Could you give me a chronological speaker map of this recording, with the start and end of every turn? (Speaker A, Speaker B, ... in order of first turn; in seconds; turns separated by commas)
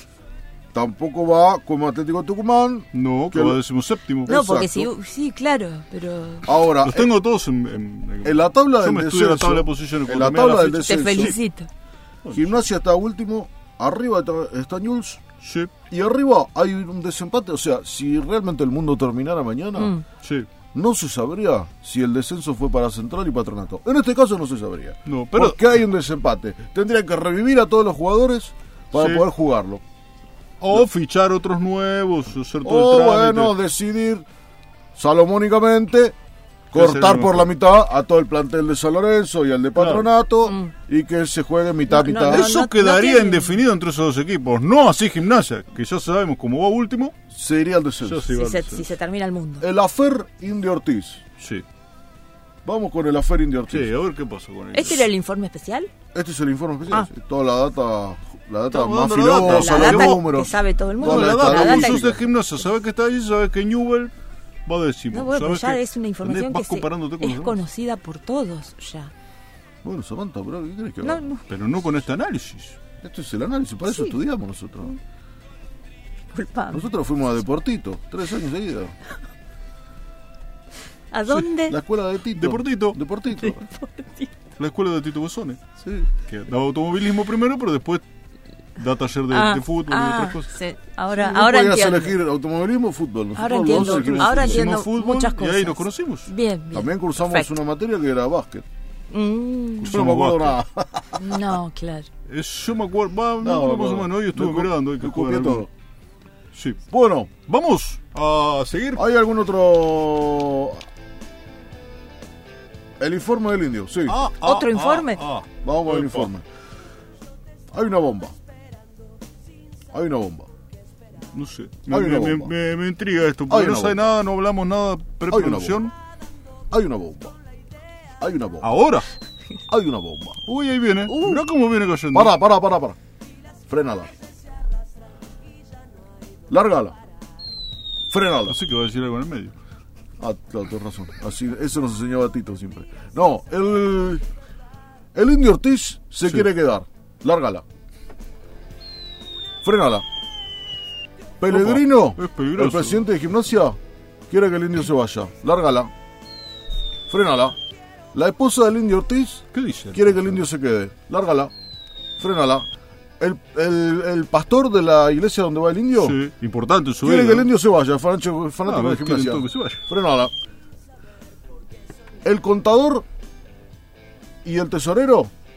Speaker A: 0.7-3.6, Speaker B: 2.9-4.3, Speaker A: 4.2-4.9, Speaker C: 4.3-6.5, Speaker A: 6.4-7.1, Speaker B: 6.8-11.4, Speaker A: 8.2-11.3, Speaker C: 10.8-11.7, Speaker B: 12.2-12.6, Speaker A: 12.3-15.2, Speaker B: 15.4-15.7, Speaker A: 15.9-19.9, Speaker C: 19.8-20.0, Speaker B: 20.2-20.5, Speaker A: 20.7-29.8, Speaker B: 25.1-25.6, Speaker B: 28.9-29.2, Speaker B: 30.6-33.6, Speaker A: 32.6-34.2, Speaker A: 35.0-36.1, Speaker A: 36.7-42.5, Speaker B: 36.7-37.5, Speaker B: 39.8-40.1, Speaker C: 40.4-40.7, Speaker C: 41.9-43.6, Speaker B: 42.2-47.1, Speaker A: 47.3-48.3, Speaker B: 48.0-48.9, Speaker C: 48.3-49.6, Speaker A: 49.6-51.2, Speaker B: 51.4-51.6, Speaker A: 52.6-53.9, Speaker B: 53.7-55.1, Speaker C: 54.7-55.9, Speaker A: 56.1-62.2, Speaker B: 58.7-60.3, Speaker C: 59.4-62.1, Speaker B: 61.0-64.1, Speaker B: 64.7-67.6, Speaker C: 65.1-69.1, Speaker A: 69.8-71.2, Speaker C: 71.0-71.4, Speaker B: 71.5-72.8, Speaker A: 73.0-74.9, Speaker C: 73.9-74.2, Speaker C: 76.3-76.9, Speaker A: 76.7-78.9, Speaker C: 81.1-81.8, Speaker A: 81.7-83.6, Speaker B: 82.3-83.0, Speaker C: 83.3-84.3, Speaker B: 84.6-85.6, Speaker A: 85.8-86.1, Speaker B: 86.1-88.0, Speaker B: 88.8-90.5, Speaker C: 89.3-92.2, Speaker A: 91.1-94.7, Speaker C: 93.3-97.5, Speaker B: 93.7-96.3, Speaker A: 96.7-98.6, Speaker C: 99.1-100.0, Speaker B: 99.8-100.6, Speaker A: 99.8-101.2, Speaker C: 101.1-102.1, Speaker B: 102.3-105.7, Speaker A: 103.4-105.7, Speaker B: 106.5-106.8, Speaker A: 106.9-107.3, Speaker B: 107.5-109.0, Speaker A: 109.0-110.8, Speaker A: 113.0-114.2, Speaker B: 114.1-116.3, Speaker C: 114.4-115.2, Speaker A: 115.6-116.4, Speaker A: 117.7-118.3, Speaker A: 119.9-120.5, Speaker B: 121.3-125.9, Speaker A: 121.9-122.5, Speaker A: 123.5-124.0, Speaker A: 125.3-125.9, Speaker A: 126.7-127.3, Speaker A: 128.2-128.7, Speaker B: 128.6-129.1, Speaker A: 129.7-130.4, Speaker B: 130.4-132.4, Speaker A: 131.0-131.5, Speaker A: 132.1-133.0, Speaker A: 133.7-134.1, Speaker A: 136.5-136.9, Speaker A: 138.1-138.6, Speaker B: 138.5-139.5, Speaker A: 140.2-144.2, Speaker A: 145.1-147.6, Speaker A: 149.6-150.0, Speaker A: 151.4-153.8, Speaker B: 151.5-153.0, Speaker A: 154.3-155.9, Speaker A: 157.1-157.6, Speaker A: 158.1-161.5, Speaker B: 159.5-160.4, Speaker A: 162.2-162.7, Speaker A: 163.2-166.2, Speaker B: 166.0-167.5, Speaker A: 167.0-170.3, Speaker B: 168.6-169.8, Speaker A: 172.2-173.0, Speaker A: 174.4-175.3